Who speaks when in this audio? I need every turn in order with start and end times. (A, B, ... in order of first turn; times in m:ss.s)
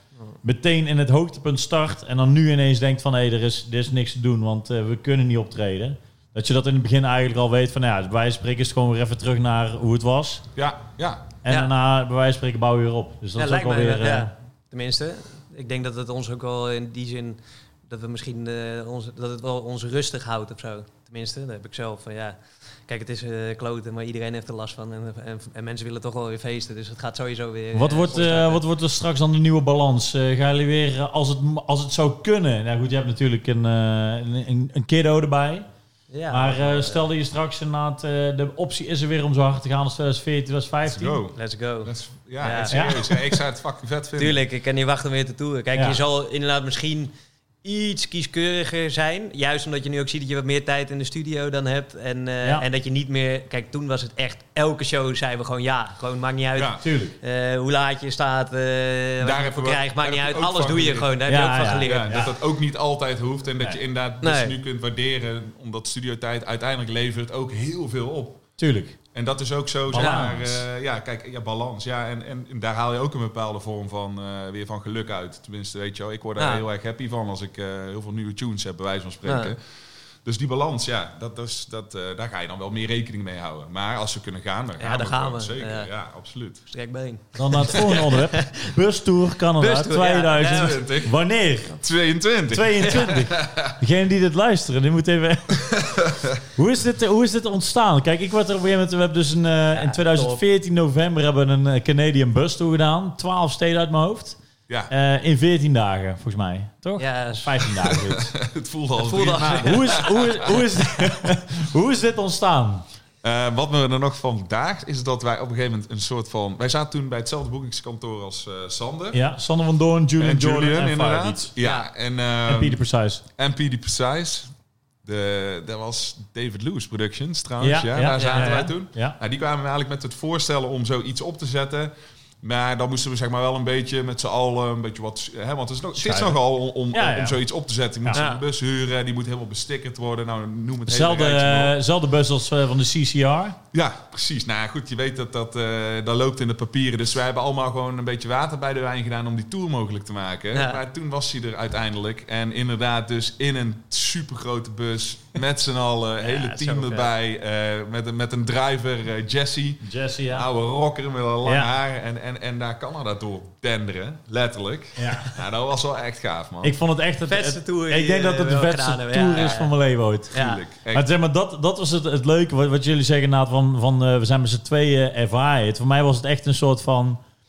0:00.4-0:10.4 A
0:10.5-0:11.3 B
0:11.4-0:14.3 A
0:13.4-0:28.6 C
0:27.7-0:35.6 A
0:36.1-0:37.0 C
0:36.3-0:41.2 A
0:40.8-0:44.4 B
0:41.4-0:43.1 C
0:42.7-0:43.0 A
0:44.2-0:47.1 C
0:45.7-0:46.0 A
0:47.6-1:02.3 C
0:56.5-0:56.8 B
0:56.8-0:57.2 A
0:59.2-1:01.1 B
1:01.2-1:02.3 A
1:01.8-1:08.4 B
1:04.2-1:04.6 C
1:08.6-1:09.0 A
1:09.1-1:19.6 B
1:09.9-1:10.6 A
1:09.9-1:10.3 C
1:16.4-1:16.6 C
1:19.2-1:19.5 C
1:20.2-1:26.6 B
1:24.8-1:25.9 C
1:26.7-1:28.7 C
1:27.4-1:31.8 A
1:29.6-1:30.8 C
1:30.4-1:31.1 B
1:31.7-1:33.7 B
1:32.5-1:35.9 A
1:32.8-1:33.2 C
1:35.7-1:36.4 B
1:36.5-1:44.4 A
1:39.7-1:40.4 C
1:44.9-1:48.3 A
1:47.0-1:47.8 C
1:47.8-1:50.6 B
1:49.0-1:50.1 C
1:49.6-1:52.8 A
1:53.2-1:59.2 B
1:59.1-2:01.5 A
2:00.2-2:02.8 B
2:01.6-2:01.9 C
2:02.5-2:03.2 A
2:03.4-2:04.5 B
2:05.0-2:21.8 B
2:07.6-2:09.2 A
2:08.2-2:08.6 C
2:16.0-2:17.4 A
2:18.1-2:18.4 C
2:20.9-2:23.6 A
2:23.7-2:46.8 B
2:30.5-2:30.8 C
2:36.2-2:37.1 C
2:39.8-2:40.5 A
2:41.4-2:41.7 A
2:45.0-2:45.4 A
2:46.6-2:50.4 A
2:47.3-2:49.7 C
2:50.3-2:50.6 C
2:50.3-2:51.1 B
2:50.9-2:57.2 A